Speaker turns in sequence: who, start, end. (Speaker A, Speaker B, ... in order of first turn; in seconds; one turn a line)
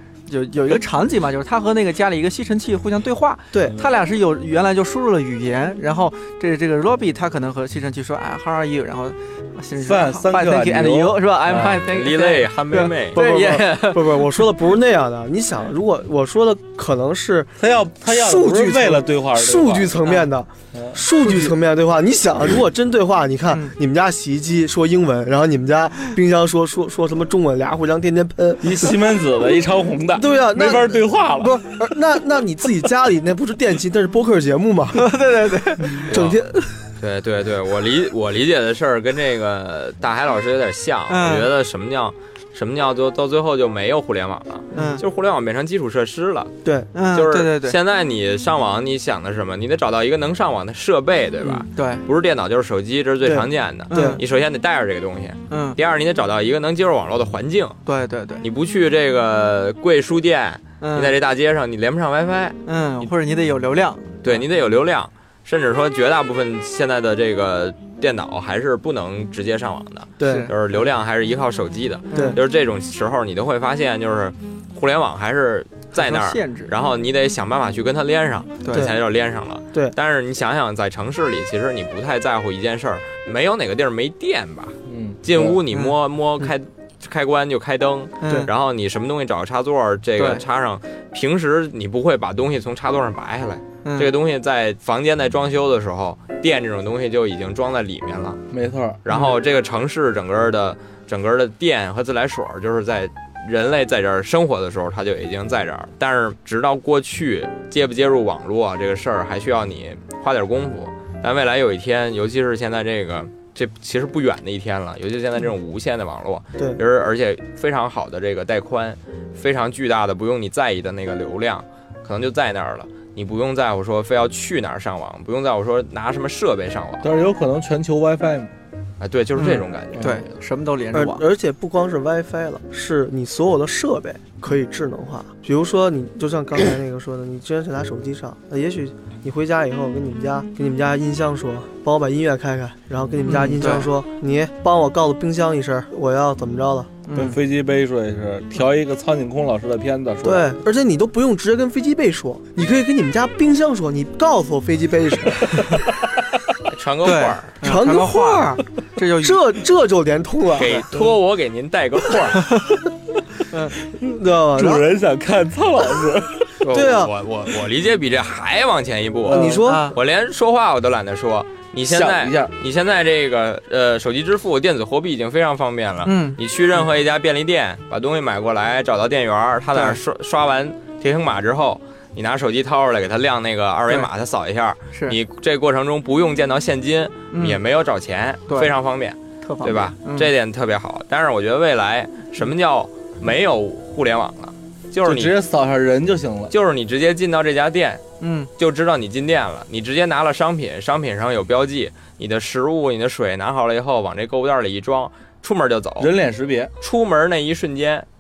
Speaker A: 0.3-14.4
Speaker B: 3.5-3.8
Speaker C: 9.8-11.8
Speaker D: 11.9-13.2
Speaker B: 13.1-29.0
Speaker C: 17.6-20.1
Speaker C: 20.7-21.3
Speaker C: 28.6-31.6
Speaker B: 30.1-35.1
Speaker A: 35.0-36.0
Speaker B: 35.9-36.7
Speaker D: 36.0-36.4
Speaker D: 37.0-46.5
Speaker A: 41.1-41.5
Speaker A: 44.7-45.0
Speaker B: 46.6-46.9
Speaker A: 46.9-47.8
Speaker D: 47.1-57.8
Speaker A: 51.4-52.0
Speaker B: 53.2-54.2
Speaker A: 53.9-54.2
Speaker A: 55.5-55.8
Speaker A: 57.8-58.5
Speaker D: 58.4-63.1
Speaker A: 60.8-61.1
Speaker A: 62.6-64.4
Speaker D: 64.2-98.4
Speaker B: 70.2-70.5
Speaker A: 70.2-70.5
Speaker A: 72.1-72.4
Speaker B: 72.1-72.4
Speaker A: 75.9-76.7
Speaker A: 78.6-78.9
Speaker C: 84.9-85.6
Speaker A: 88.2-88.5
Speaker A: 90.2-90.4
Speaker A: 93.8-94.1
Speaker C: 98.5-99.0
Speaker D: 99.0-127.1
Speaker C: 127.0-128.5
Speaker D: 129.0-130.2
Speaker A: 129.3-131.2
Speaker C: 129.9-130.2
Speaker B: 130.9-146.9
Speaker A: 143.2-143.9
Speaker A: 147.1-147.4
Speaker C: 147.1-150.6
Speaker B: 150.2-155.9
Speaker C: 155.5-156.4
Speaker D: 156.7-157.6
Speaker A: 157.0-159.4
Speaker B: 157.6-158.6
Speaker B: 159.2-161.1
Speaker D: 160.5-162.6
Speaker B: 163.5-164.8
Speaker C: 164.6-167.1
Speaker B: 166.7-167.1
Speaker D: 166.8-195.3
Speaker C: 169.2-169.6
Speaker B: 169.3-169.9
Speaker A: 169.7-170.0
Speaker C: 171.8-172.5
Speaker A: 176.0-176.4
Speaker A: 179.7-180.0
Speaker A: 187.3-187.6
Speaker A: 189.4-190.3
Speaker C: 195.0-196.5
Speaker D: 196.5-198.0
Speaker A: 198.2-198.5
Speaker D: 198.6-206.1
Speaker C: 206.0-206.7
Speaker D: 206.8-208.1